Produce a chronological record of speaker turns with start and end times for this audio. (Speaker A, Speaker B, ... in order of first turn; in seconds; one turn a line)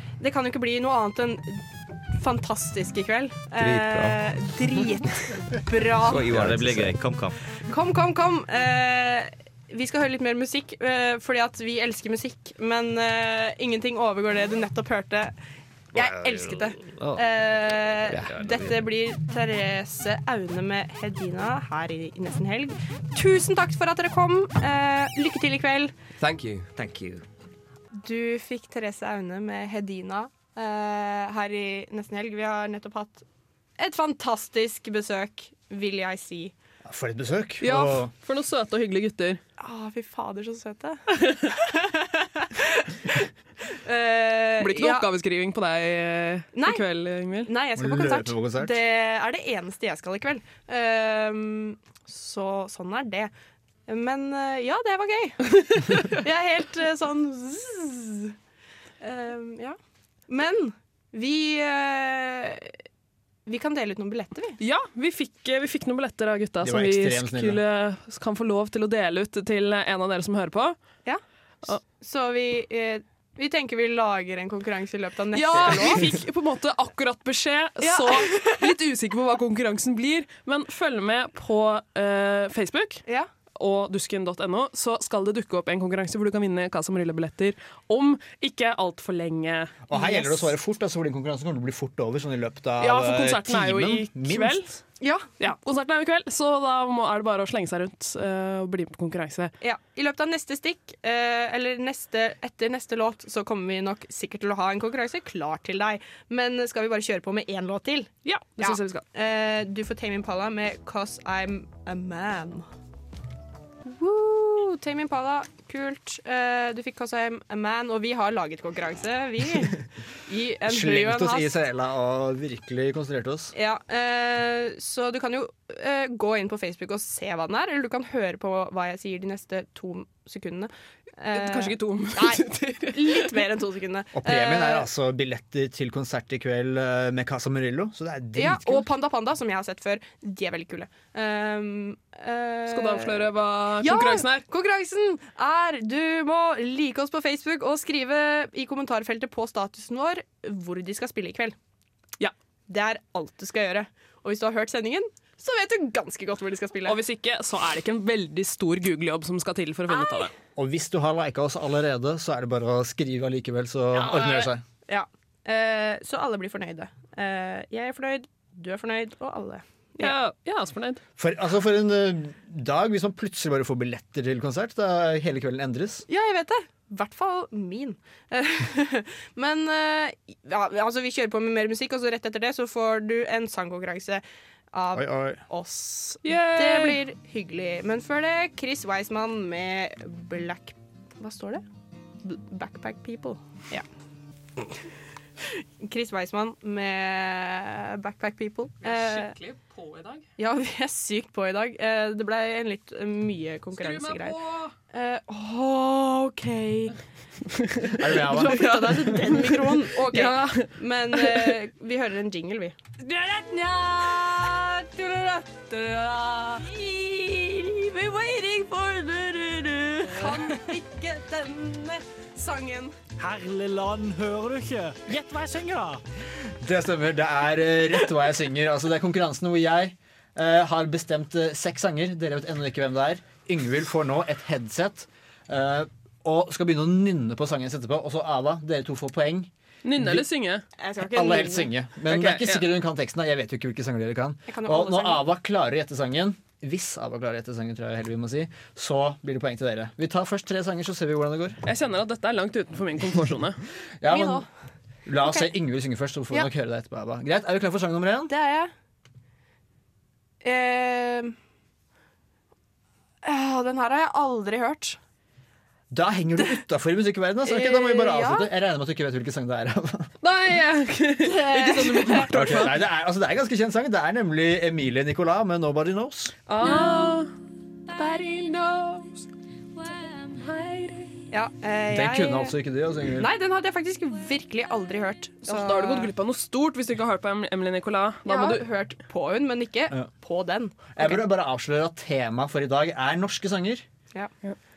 Speaker A: 0.2-6.3
Speaker B: 3.6-4.3
Speaker C: 6.1-7.5
Speaker B: 6.1-7.0
Speaker A: 7.7-15.3
Speaker A: 15.9-25.9
Speaker C: 16.0-16.4
Speaker C: 17.0-17.2
Speaker B: 18.1-18.6
Speaker B: 26.2-26.7
Speaker C: 26.8-27.2
Speaker A: 28.0-33.2
Speaker A: 33.8-36.5
Speaker D: 36.8-38.1
Speaker E: 37.6-39.4
Speaker A: 39.6-43.0
Speaker A: 43.8-45.1
Speaker E: 44.6-47.5
Speaker A: 46.5-46.8
Speaker A: 47.5-53.3
Speaker D: 47.8-48.8
Speaker A: 53.9-58.3
Speaker A: 59.0-59.8
Speaker A: 60.3-62.8
Speaker A: 63.5-64.6
Speaker E: 64.6-71.0
Speaker D: 66.6-67.6
Speaker A: 71.0-76.1
Speaker E: 75.3-89.8
Speaker A: 77.8-78.7
Speaker D: 89.9-94.8
Speaker A: 89.9-90.5
Speaker E: 92.8-94.7
Speaker A: 95.0-95.3
Speaker E: 95.4-99.5
Speaker A: 99.6-112.7
Speaker E: 108.2-109.0
Speaker A: 113.9-121.5
Speaker D: 120.7-123.5
Speaker A: 123.5-134.9
Speaker E: 131.3-133.4
Speaker D: 134.1-138.9
Speaker A: 138.4-151.6
Speaker E: 142.7-144.4
Speaker A: 152.7-157.0
Speaker E: 156.9-160.3
Speaker A: 159.9-160.3
Speaker D: 160.6-164.6
Speaker A: 164.0-170.2
Speaker E: 170.0-171.0
Speaker D: 171.2-176.1
Speaker A: 176.1-191.6
Speaker D: 184.9-185.4
Speaker E: 186.2-187.0
Speaker A: 192.2-193.8
Speaker A: 195.8-199.3
Speaker E: 198.8-200.3
Speaker A: 200.4-204.4
Speaker E: 203.8-204.7
Speaker A: 204.9-207.0
Speaker D: 208.0-208.7
Speaker A: 208.1-222.9
Speaker E: 208.2-211.5
Speaker E: 220.1-220.6
Speaker F: 223.2-226.0
Speaker D: 226.5-240.3
Speaker E: 239.8-240.6
Speaker A: 240.8-241.7
Speaker D: 241.0-251.6
Speaker E: 242.1-242.7
Speaker A: 244.5-245.2
Speaker E: 251.6-253.6
Speaker D: 254.0-254.5
Speaker A: 254.1-254.5
Speaker D: 255.1-258.3
Speaker A: 255.2-255.5
Speaker A: 258.3-258.7
Speaker A: 260.4-261.4
Speaker A: 263.2-265.0
Speaker D: 265.9-270.1
Speaker A: 267.4-268.5
Speaker E: 270.2-272.8
Speaker A: 271.2-272.3
Speaker D: 272.3-276.3
Speaker E: 276.5-277.3
Speaker A: 276.6-277.2
Speaker E: 277.9-279.1
Speaker E: 280.0-281.2
Speaker A: 281.3-286.1
Speaker D: 281.9-283.3
Speaker E: 285.4-288.7
Speaker A: 288.3-291.2
Speaker D: 290.9-293.8